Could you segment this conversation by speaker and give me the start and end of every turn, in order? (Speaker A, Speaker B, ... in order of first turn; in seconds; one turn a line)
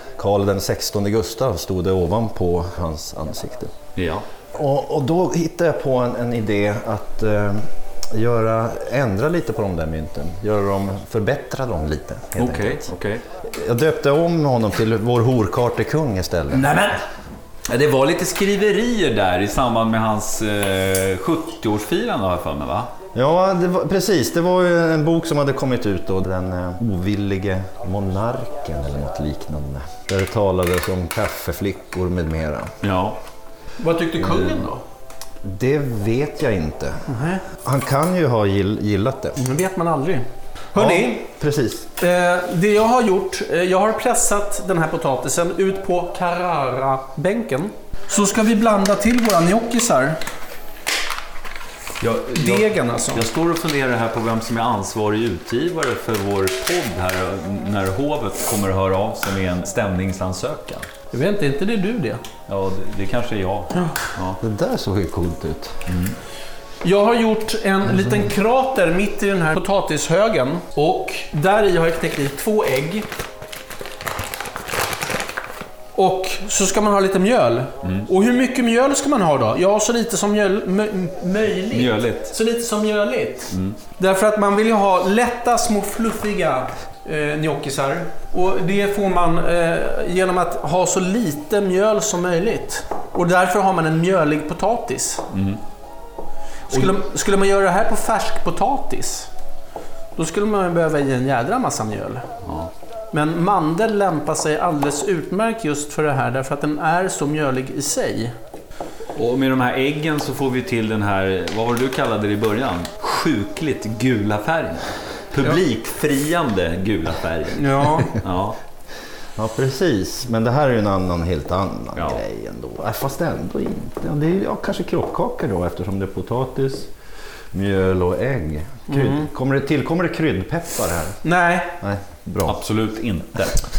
Speaker A: 0.2-3.7
Speaker B: 4.0-4.2
Speaker A: 4.5-12.9
Speaker B: 12.4-13.2
Speaker A: 13.4-16.8
Speaker C: 16.5-17.0
Speaker B: 17.7-22.9
Speaker A: 23.1-32.7
Speaker B: 32.8-33.2
Speaker C: 33.8-34.8
Speaker A: 35.4-37.0
Speaker C: 37.1-37.4
Speaker A: 37.6-39.4
Speaker C: 39.4-41.2
Speaker A: 40.8-41.9
Speaker C: 42.0-50.2
Speaker B: 52.0-60.9
Speaker C: 52.3-53.2
Speaker C: 61.1-62.2
Speaker B: 62.5-64.4
Speaker A: 64.4-65.8
Speaker B: 65.9-66.2
Speaker C: 66.8-73.1
Speaker C: 75.9-95.2
Speaker B: 81.7-82.3
Speaker B: 83.5-83.8
Speaker B: 95.3-95.6
Speaker C: 96.7-99.3
Speaker C: 100.2-102.2
Speaker B: 102.4-102.7
Speaker C: 103.1-108.3
Speaker B: 109.2-118.6
Speaker C: 117.5-118.1
Speaker A: 119.3-126.9
Speaker A: 127.5-131.2
Speaker C: 128.9-129.3
Speaker C: 131.2-131.7
Speaker A: 131.8-132.6
Speaker B: 132.5-133.7